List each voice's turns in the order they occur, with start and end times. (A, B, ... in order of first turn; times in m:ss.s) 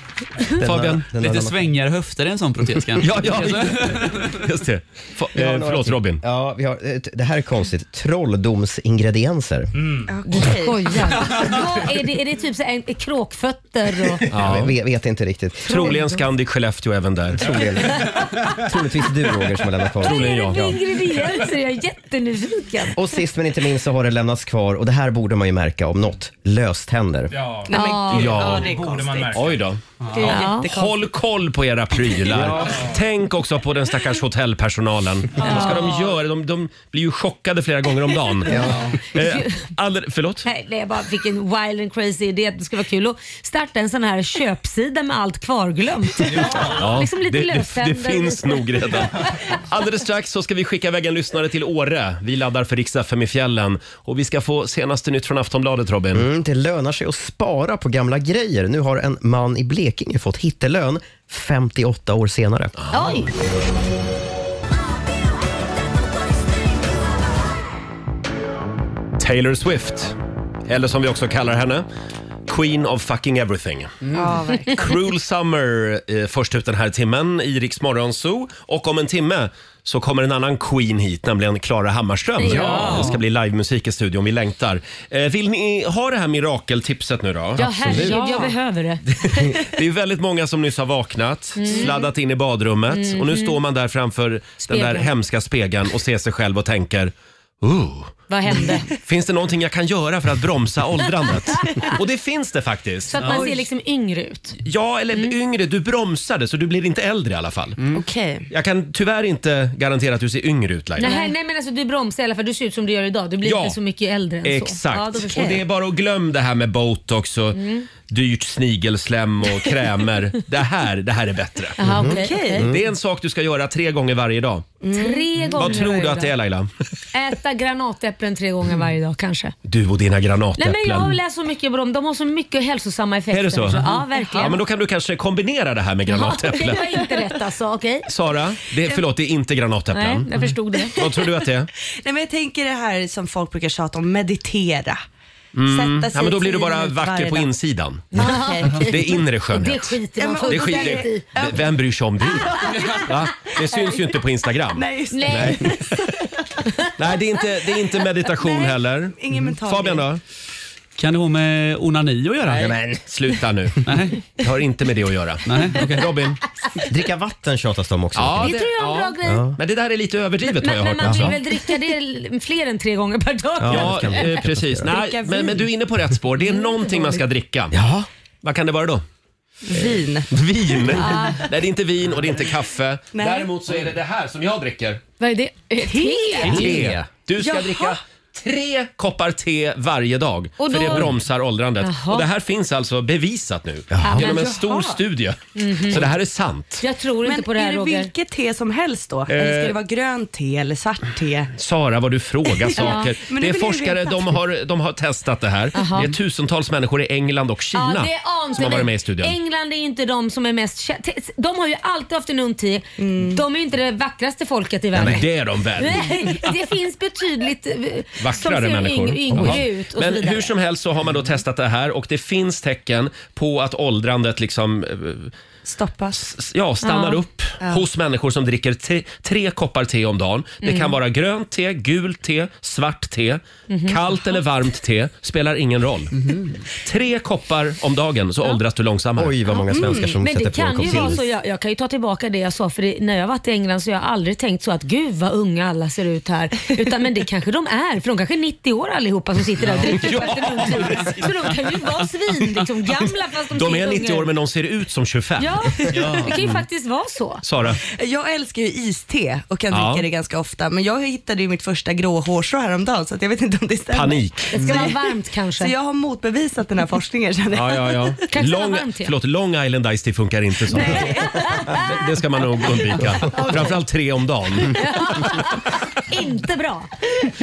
0:00.6-0:01.7 A
0:00.6-0:01.0 B
0:01.1-0:04.4 C
0:03.0-0:06.2 B
0:05.4-0:09.7 A
0:09.8-0:10.1 D
0:10.1-0:11.6 E
0:10.3-0:14.3 F
0:14.3-0:14.7 B
0:14.4-0:16.0 A
0:15.7-0:16.2 F
0:15.7-0:17.5 B
0:17.4-0:20.6 A
0:17.5-0:18.2 D
0:18.0-0:18.5 F
0:20.0-0:23.0 F
0:20.0-0:20.8 B
0:22.9-0:27.3 A
0:27.3-0:27.7 D
0:27.7-0:29.4 E
0:27.7-0:28.5 F
0:28.1-0:28.7 B
0:28.4-0:29.7 D
0:29.3-0:29.8 B
0:30.1-0:31.0 E
0:30.2-0:30.7 F
0:30.5-0:40.5 B
0:32.3-0:32.8 A
0:32.5-0:33.0 D
0:35.4-0:36.0 F
0:38.5-0:38.9 A
0:39.2-0:39.6 F
0:40.4-0:49.4 F
0:46.2-0:46.8 D
0:46.6-0:56.3 B
0:56.1-1:02.8 A
1:02.8-1:03.3 B
1:02.9-1:03.3 F
1:09.2-1:10.2 B
1:10.7-1:11.9 B
1:12.5-1:14.0 B
1:14.1-1:15.0 E
1:14.7-1:28.2 B
1:22.4-1:23.1 F
1:22.6-1:23.0 A
1:27.6-1:29.5 F
1:27.7-1:28.2 A
1:28.1-1:28.6 E
1:29.2-1:38.2 B
1:31.6-1:32.1 F
1:32.9-1:33.6 F
1:34.7-1:35.1 F
1:38.3-1:38.9 F
1:38.6-1:38.8 E
1:38.9-1:43.5 B
1:43.1-1:44.6 F
1:44.6-1:47.8 B
1:47.9-1:48.5 E
1:48.5-1:51.1 B
1:51.0-1:55.6 F
1:51.0-1:51.3 E
1:53.4-1:53.8 B
1:54.4-2:01.8 B
1:55.3-1:55.6 E
1:57.5-1:57.9 F
2:01.8-2:02.7 F
2:01.8-2:02.8 A
2:02.0-2:02.6 E
2:02.6-2:04.7 B
2:04.8-2:05.5 E
2:04.9-2:06.3 F
2:05.6-2:06.7 B
2:07.1-2:09.5 F
2:09.7-2:11.2 B
2:10.6-2:14.6 F
2:13.3-2:13.8 B
2:14.4-2:16.9 B
2:16.1-2:18.1 F
2:18.1-2:20.3 B
2:19.9-2:21.0 F
2:21.0-2:21.7 B
2:22.0-2:25.0 E
2:25.5-2:28.2 B
2:25.6-2:27.5 E
2:28.1-2:28.9 E
2:28.2-2:31.4 F
2:28.8-2:35.9 B
2:30.2-2:31.6 E
2:32.3-2:33.1 E
2:34.7-2:35.8 E
2:35.1-2:36.0 F
2:37.0-2:40.2 B
2:39.2-2:40.1 E
2:41.0-2:42.7 C
2:42.5-2:43.0 A
2:43.0-2:46.4 B
2:43.9-2:44.2 C
2:45.5-2:46.1 C
2:46.8-2:48.6 A
2:48.2-2:51.4 B
2:48.4-2:49.5 F
2:49.2-2:49.6 A
2:50.6-2:54.4 F
2:51.0-2:51.4 A
2:53.6-2:54.9 A
2:53.7-2:57.8 B
2:54.8-2:55.7 E
2:56.8-2:57.2 E
2:57.7-2:58.1 A
2:58.4-2:59.0 B
2:59.6-3:01.2 E
2:59.8-3:05.0 B
3:00.9-3:01.5 F
3:03.1-3:03.5 E
3:05.2-3:06.9 F
3:05.8-3:06.6 E
3:06.5-3:16.8 B
3:06.6-3:07.0 A
3:07.4-3:08.0 E
3:10.6-3:11.2 F
3:11.8-3:12.3 F
3:13.9-3:14.4 A
3:14.0-3:14.6 F
3:14.3-3:15.0 E
3:15.6-3:16.1 F
3:16.8-3:18.1 F
3:17.2-3:21.5 E
3:19.3-3:19.8 B
3:21.6-3:29.4 B
3:22.6-3:24.4 E
3:22.8-3:23.2 F
3:25.7-3:26.2 F
3:27.7-3:40.5 F
3:33.0-3:33.4 E
3:35.0-3:36.1 B
3:38.2-3:45.3 B
3:39.3-3:39.6 A
3:45.6-3:46.2 E
3:46.1-3:56.2 B
3:46.8-3:47.2 F
3:50.6-3:51.0 F
3:53.7-3:54.2 F
3:56.8-3:59.4 B
3:59.2-4:01.2 A
3:59.5-4:14.3 F
4:09.8-4:11.7 B
4:13.0-4:16.5 B
4:15.4-4:17.4 F
4:15.9-4:16.3 C
4:17.4-4:17.8 B
4:17.8-4:28.2 E
4:19.7-4:20.1 B
4:23.9-4:24.6 B
4:24.5-4:25.7 F
4:27.5-4:31.2 B
4:28.3-4:29.1 F
4:30.7-4:31.8 E
4:31.4-4:31.8 F
4:31.7-4:34.8 B
4:33.3-4:33.8 E
4:34.7-4:36.9 F